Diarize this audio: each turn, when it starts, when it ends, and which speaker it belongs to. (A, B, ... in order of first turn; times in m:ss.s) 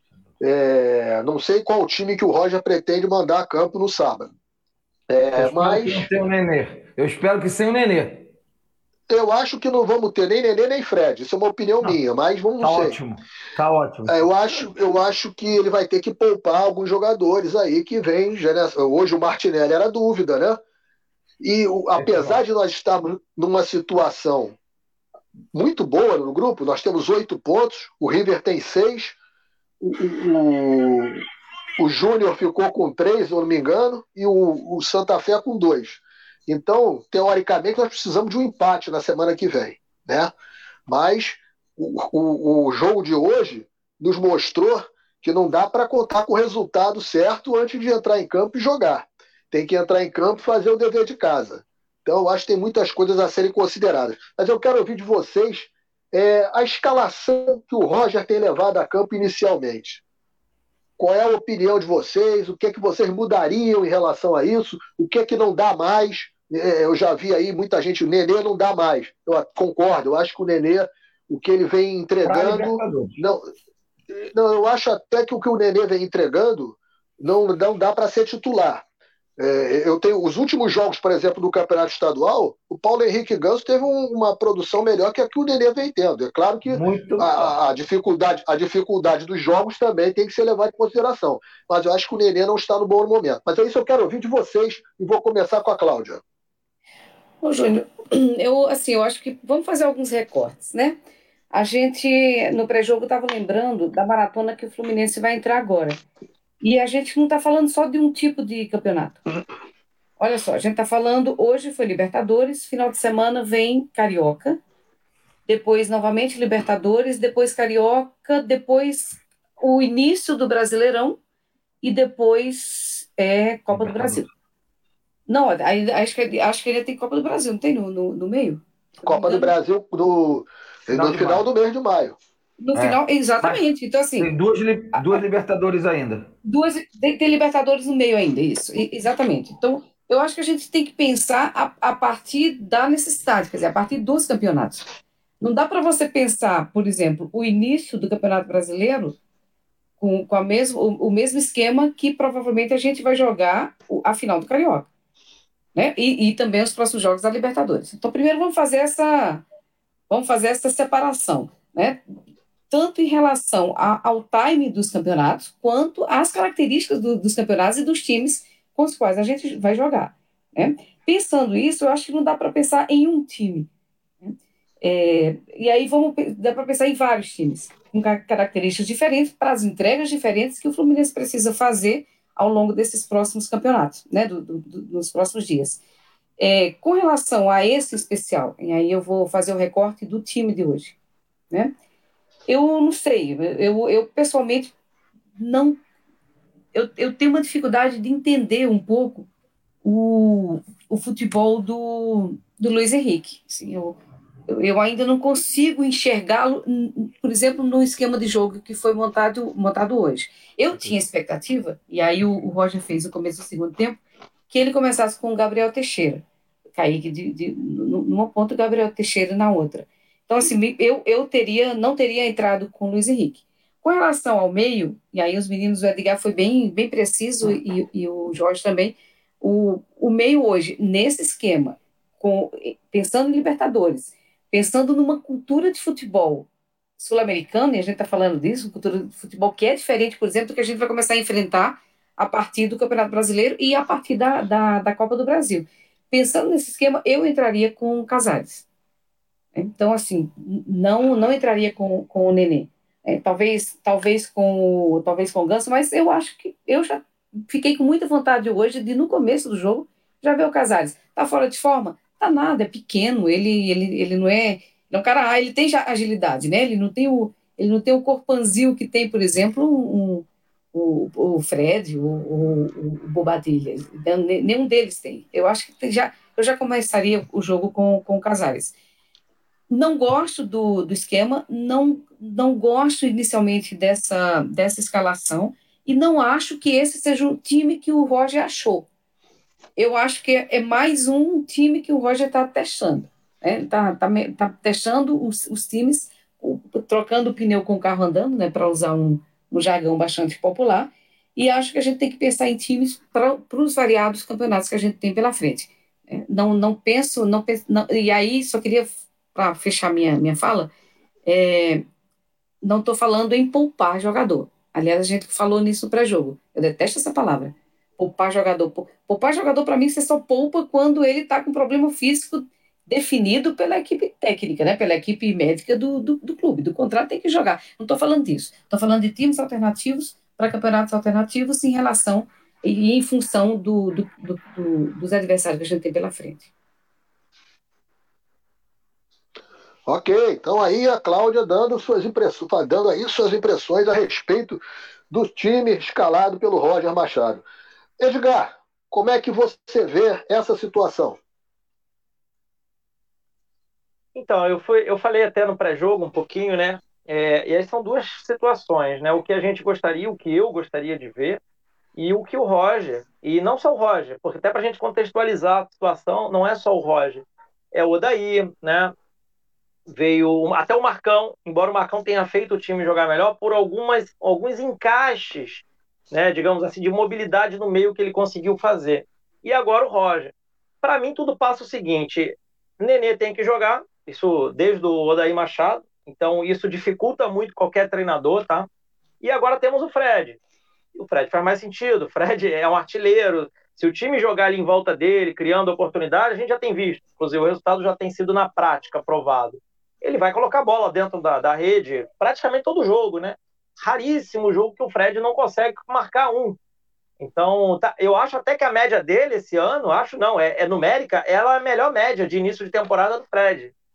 0:00.4-0:04.3 A
0:05.1-0:06.1 A
0:05.3-0:08.3 B
0:09.1-0:12.9 A
0:12.6-0:14.3 B
0:14.1-0:20.6 A
0:21.4-0:24.5 A
0:21.9-0:22.4 B
0:25.5-0:29.2 A
0:29.8-0:31.2 A
0:31.8-0:40.3 A
0:40.9-1:00.0 A
1:01.0-1:13.4 A
1:12.2-1:13.4 B
1:14.1-1:18.8 A
1:19.4-1:36.2 A
1:26.7-1:27.5 B
1:37.4-1:41.0 C
1:41.5-1:46.0 C
1:46.6-1:49.2 C
1:50.2-1:54.6 C
1:55.4-2:01.2 C
2:01.8-2:04.2 C
2:03.7-2:04.3 B
2:05.3-2:09.5 C
2:09.0-2:12.2 A
2:10.9-2:11.4 B
2:12.6-2:14.3 C
2:12.7-2:13.6 B
2:14.2-2:16.3 B
2:16.4-2:24.8 C
2:25.4-2:29.2 C
2:30.0-2:34.9 C
2:35.7-2:39.4 C
2:40.1-2:42.0 C
2:42.7-2:53.7 C
2:54.2-3:05.8 C
3:06.4-3:11.0 C
3:12.5-3:14.7 C
3:15.4-3:15.8 C
3:16.7-3:19.3 C
3:19.8-3:34.0 C
3:34.5-3:36.2 C
3:36.8-3:56.5 C
3:57.0-4:08.6 C
4:09.5-4:38.7 C
4:39.7-4:48.9 C
4:49.8-5:10.7 C
5:11.2-5:11.8 C
5:12.6-5:36.5 C
5:39.8-5:44.6 A
5:45.1-5:47.4 A
5:48.0-5:51.2 A
5:54.1-6:01.4 D
6:01.9-6:08.9 D
6:09.9-6:28.7 D
6:29.2-6:30.4 D
6:30.9-6:46.6 D
6:47.2-6:53.7 D